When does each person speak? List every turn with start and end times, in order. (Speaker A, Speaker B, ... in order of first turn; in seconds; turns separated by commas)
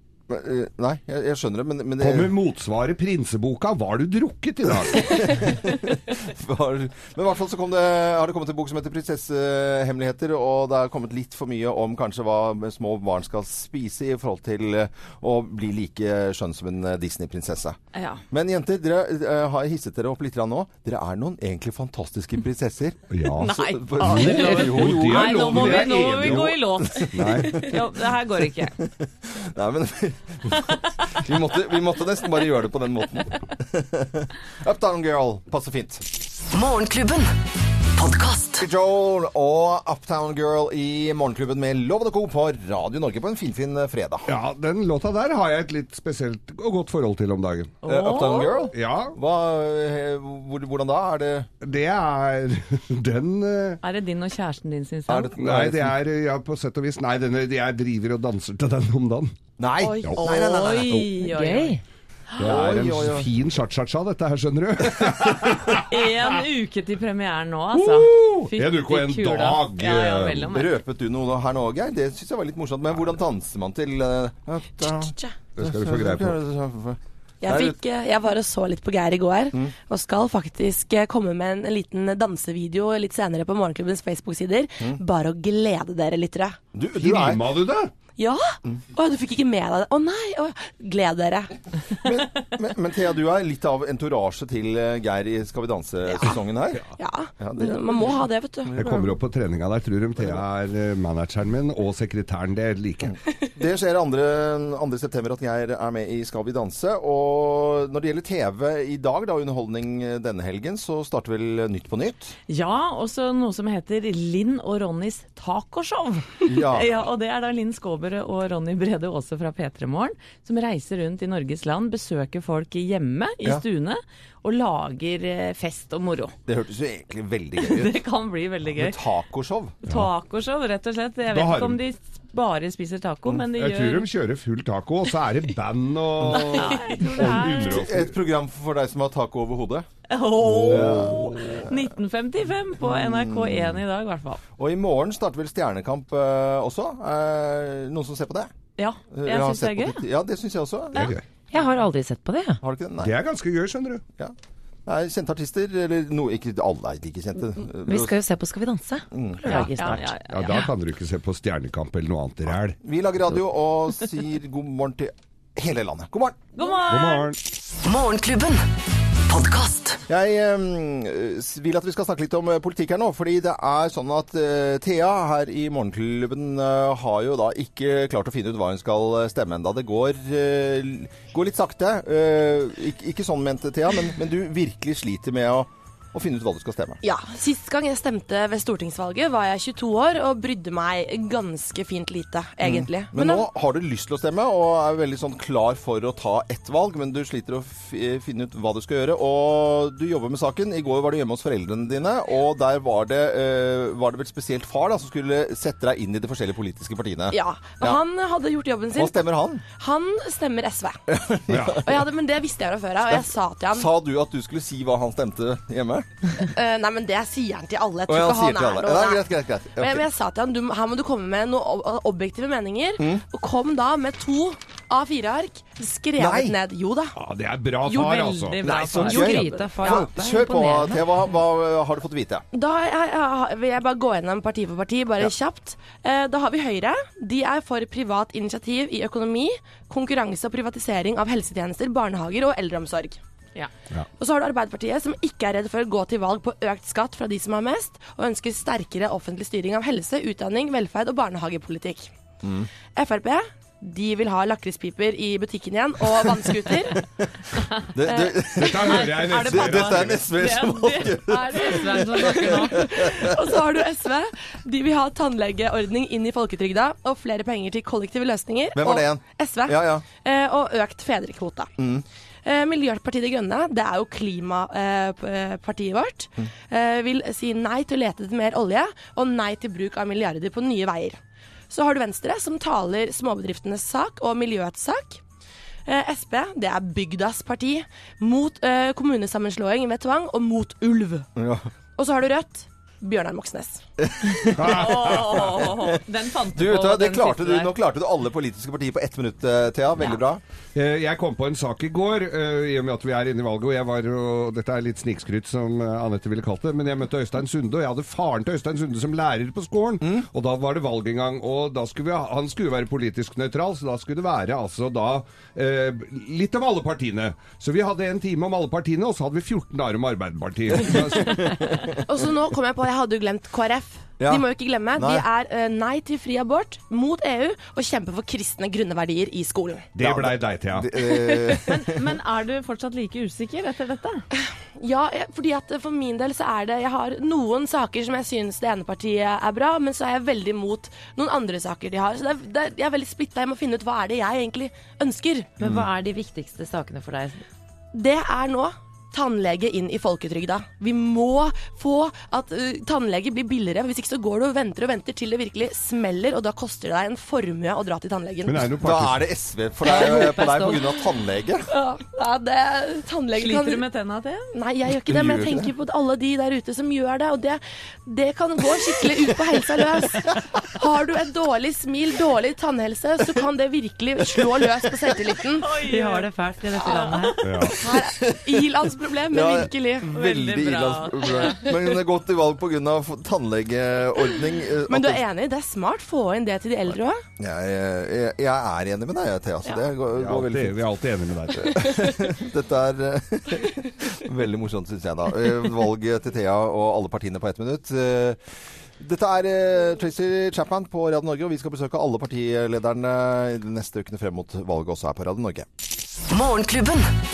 Speaker A: 0.3-2.3, Speaker B: 2.0-5.4, Speaker A: 4.9-17.8, Speaker C: 17.9-18.2, Speaker A: 18.3-27.8, Speaker B: 23.1-27.8, Speaker C: 23.4-28.8, Speaker A: 28.8-36.0, Speaker D: 36.5-38.7, Speaker A: 38.6-44.3, Speaker B: 44.3-47.8, Speaker C: 47.8-48.7, Speaker A: 47.9-51.5, Speaker B: 48.7-49.1, Speaker B: 51.6-53.8, Speaker C: 53.8-55.3, Speaker A: 55.1-56.0, Speaker B: 55.4-59.3, Speaker A: 59.6-61.1, Speaker E: 59.8-60.8, Speaker C: 60.2-61.8, Speaker F: 61.2-61.8, Speaker B: 62.4-65.9, Speaker A: 62.4-63.3, Speaker C: 65.9-70.8, Speaker B: 68.3-70.5, Speaker A: 70.5-77.8, Speaker E: 74.9-75.3, Speaker B: 75.6-76.4, Speaker E: 77.4-86.6, Speaker A: 86.7-87.4, Speaker B: 87.0-87.9, Speaker E: 88.2-91.5, Speaker A: 92.0-96.8, Speaker E: 97.0-99.0, Speaker A: 97.4-98.2, Speaker A: 98.7-99.0, Speaker B: 98.7-103.1, Speaker A: 103.1-112.3, Speaker C: 112.5-126.3, Speaker A: 116.5-117.0, Speaker A: 126.5-128.0, Speaker C: 127.6-129.0, Speaker A: 128.7-129.8, Speaker C: 129.8-134.1, Speaker B: 131.3-131.8, Speaker B: 133.6-138.1, Speaker C: 136.3-137.9, Speaker A: 137.7-139.9, Speaker C: 140.1-144.4, Speaker B: 140.4-141.6, Speaker A: 140.6-141.4, Speaker A: 142.8-143.7, Speaker A: 144.6-148.5, Speaker C: 148.8-150.0, Speaker A: 149.1-151.1, Speaker B: 150.9-151.2, Speaker F: 151.5-152.6, Speaker A: 152.6-153.1, Speaker B: 153.0-154.0, Speaker A: 154.9-158.2, Speaker F: 157.9-160.7, Speaker A: 159.1-159.7, Speaker C: 159.5-160.6, Speaker B: 160.3-162.8, Speaker A: 162.8-166.5, Speaker C: 166.6-167.3, Speaker B: 166.9-167.4, Speaker D: 167.8-168.7, Speaker D: 169.3-170.0, Speaker A: 170.1-187.0, Speaker E: 187.0-193.4, Speaker A: 192.6-208.0, Speaker E: 207.3-209.2, Speaker A: 208.9-209.6, Speaker E: 209.8-211.0, Speaker A: 211.1-212.0, Speaker B: 211.5-211.9, Speaker E: 211.8-213.9, Speaker A: 213.1-216.2, Speaker E: 216.4-219.2, Speaker A: 218.1-220.1, Speaker E: 219.8-227.2, Speaker A: 226.2-226.6, Speaker B: 227.2-228.7, Speaker C: 227.9-229.5, Speaker A: 228.6-232.4, Speaker F: 229.0-231.0, Speaker E: 229.4-230.1, Speaker E: 232.5-243.2, Speaker E: 244.2-252.1, Speaker A: 252.4-252.7, Speaker E: 252.9-257.0, Speaker A: 257.9-263.4, Speaker E: 258.1-258.4, Speaker B: 258.5-260.3, Speaker C: 258.8-263.3, Speaker E: 261.5-271.7, Speaker A: 268.8-270.1, Speaker A: 271.8-272.0, Speaker E: 272.4-281.2, Speaker E: 281.7-285.2, Speaker E: 285.9-291.3, Speaker A: 291.4-291.7, Speaker E: 292.0-293.8, Speaker A: 294.0-296.0, Speaker B: 294.6-295.4, Speaker C: 294.7-297.7, Speaker A: 296.5-300.4, Speaker B: 300.8-321.9, Speaker A: 321.1-321.7, Speaker E: 322.1-329.9, Speaker A: 325.0-325.3, Speaker B: 329.9-330.9, Speaker A: 330.0-332.0, Speaker C: 331.6-334.2, Speaker E: 334.4-345.5, Speaker F: 345.6-347.4, Speaker E: 347.9-358.7, Speaker B: 358.5-359.3, Speaker A: 358.8-361.7, Speaker F: 359.9-360.8, Speaker E: 361.7-363.8, Speaker C: 363.4-364.5, Speaker E: 364.5-375.7, Speaker A: 365.1-365.7, Speaker C: 375.6-376.3, Speaker F: 375.9-377.4, Speaker C: 376.8-377.7, Speaker B: 377.4-377.8, Speaker E: 377.8-380.1, Speaker A: 378.1-378.6, Speaker A: 379.3-385.2, Speaker C: 380.1-381.7, Speaker E: 384.9-387.2, Speaker A: 387.4-390.8, Speaker B: 390.2-392.2, Speaker A: 391.6-398.4, Speaker A: 399.0-405.7, Speaker D: 406.3-407.2